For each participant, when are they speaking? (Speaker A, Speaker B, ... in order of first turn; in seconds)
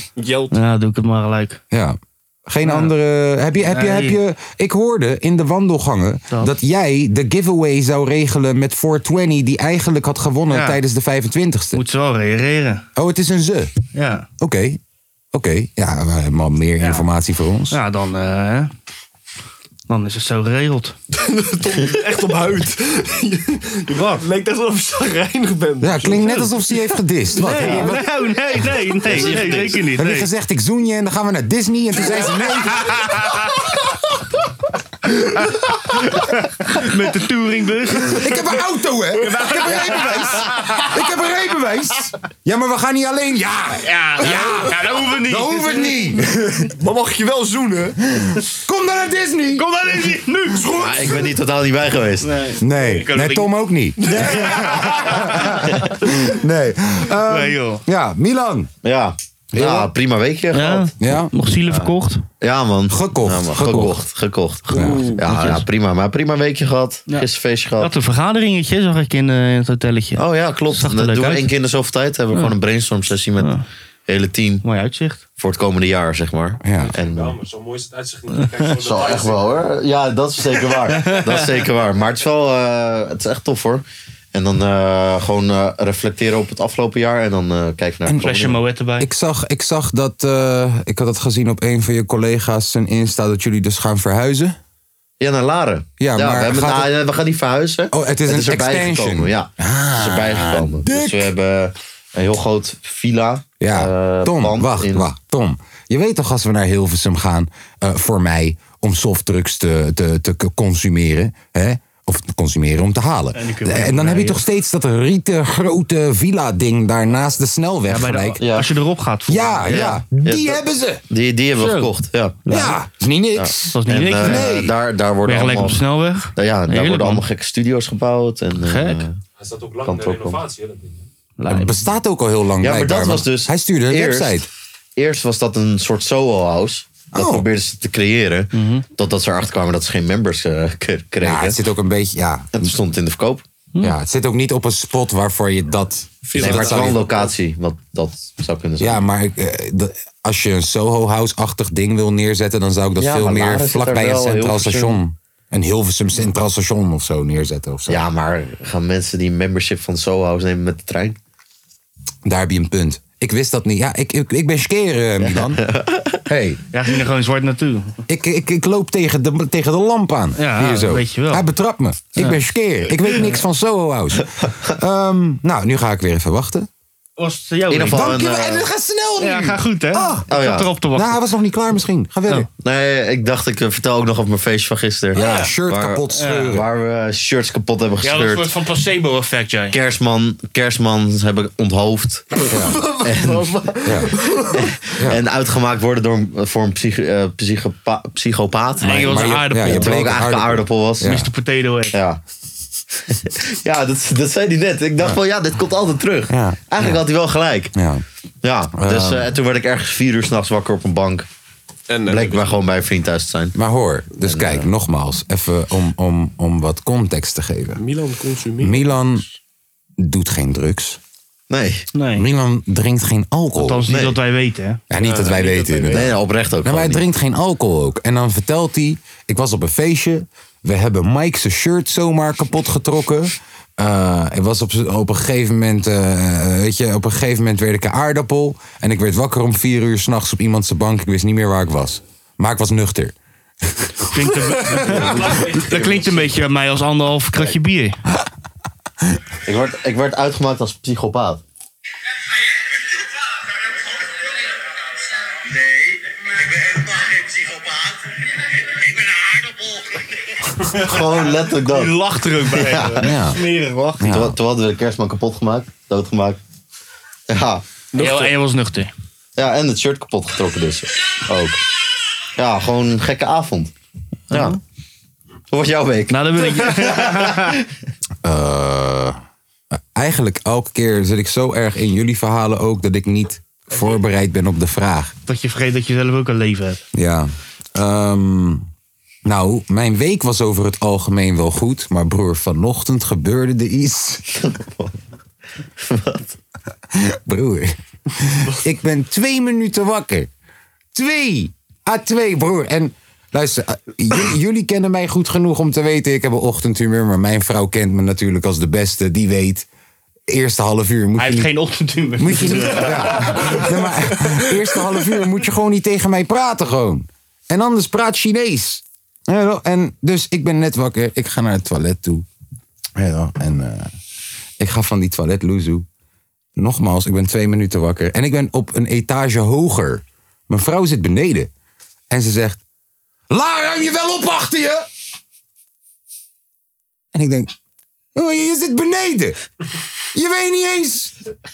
Speaker A: 0.2-0.5, 21.1-26.6, 46.8-48.0, 54.0-55.0, 64.7-65.2, 146.2-147.3, 192.4-194.6, 211.9-212.6, 217.8-219.2, 224.9-226.1, 267.9-268.3
Speaker B: 0.5-1.6, 2.6-2.9, 3.7-4.2, 10.5-10.8, 11.7-12.8, 13.9-14.3, 16.8-17.1, 17.7-18.7, 19.9-20.9, 23.9-24.2, 27.4-30.3, 35.9-38.2, 39.2-40.9, 43.8-46.1, 49.5-51.1, 52.2-53.5, 55.2-55.9, 57.3-57.8, 60.5-62.2, 65.2-65.6, 67.8-71.5, 74.6-75.2, 80.9-81.5, 88.1-89.1, 113.3-114.4, 117.9-119.9, 121.6-121.9, 123.7-124.6, 125.2-127.2, 128.6-129.0, 131.4-131.8, 138.5-138.8, 166.7-168.0, 170.4-171.4, 177.2-178.2, 179.2-181.2, 185.2-185.5, 186.1-186.6, 188.0-189.8, 198.8-200.2, 201.0-201.9, 221.9-222.2, 223.6-224.8, 244.1-248.0, 261.6-264.1, 267.9-268.9, 274.3-274.6, 276.1-277.5, 285.3-286.8, 311.2-313.7
Speaker C: 1.7-11.8, 12.9-13.7, 14.4-14.8, 15.3-17.8, 25.8-28.5, 29.1-33.3, 38.1-46.7, 48.1-49.7, 52.6-58.7, 59.5-59.9, 61.0-61.3, 62.9-64.0, 64.7-65.0, 76.6-76.9, 88.0-94.6, 96.0-96.9, 97.9-101.3, 103.6-118.4, 119.3-121.0, 122.5-124.7, 131.5-134.5, 137.1-137.5, 141.2-142.7, 143.8-147.1, 148.8-158.0, 162.2-165.6, 166.3-166.6, 168.1-176.7, 177.8-180.2, 180.9-182.5, 185.1-186.7, 192.5-192.8, 193.8-194.1, 198.8-201.3, 206.3-207.0, 207.7-208.0, 208.8-209.3, 213.6-217.8, 218.6-219.2, 220.0-221.0, 222.2-223.9, 224.9-226.1, 226.6-243.1, 263.0-263.4, 264.0-264.4, 278.2-279.2, 279.7-285.1, 286.9-288.6, 289.2-294.2, 296.9-300.3, 300.9-309.7, 310.3-311.5, 312.2-322.2, 322.9-323.9, 324.6-325.9, 326.6-331.5, 332.1-332.6, 333.3-334.9, 337.1-337.5, 338.1-339.4, 340.1-341.1
Speaker D: 29.0-29.9, 50.7-52.3, 58.8-60.9, 61.6-67.9, 70.2-73.5, 74.1-74.6, 75.4-77.4, 78.8-88.6, 95.2-105.1, 118.4-118.7, 119.6-122.8, 123.3-125.8, 126.3-129.2, 129.8-130.4, 132.6-134.4, 134.9-141.6, 142.5-143.4, 146.4-149.0, 153.0-155.0, 157.9-161.2, 165.2-166.2, 177.7-178.7, 180.3-180.7, 182.6-188.5, 189.7-192.4, 193.0-193.8, 194.5-201.2, 201.9-202.2, 203.1-207.7, 208.4-211.3, 212.1-213.6, 214.2-214.7, 221.5-221.8, 223.9-224.2, 225.9-227.0, 244.9-246.2, 249.4-251.4, 260.6-263.1, 264.1-266.4, 267.3-267.6, 269.4-271.6, 272.4-273.7, 274.3-274.6, 275.5-277.6, 294.3-294.9, 295.8-296.3
Speaker E: 76.8-79.5, 129.4-131.0, 245.1-245.7
Speaker F: 255.5-257.9, 258.8-260.1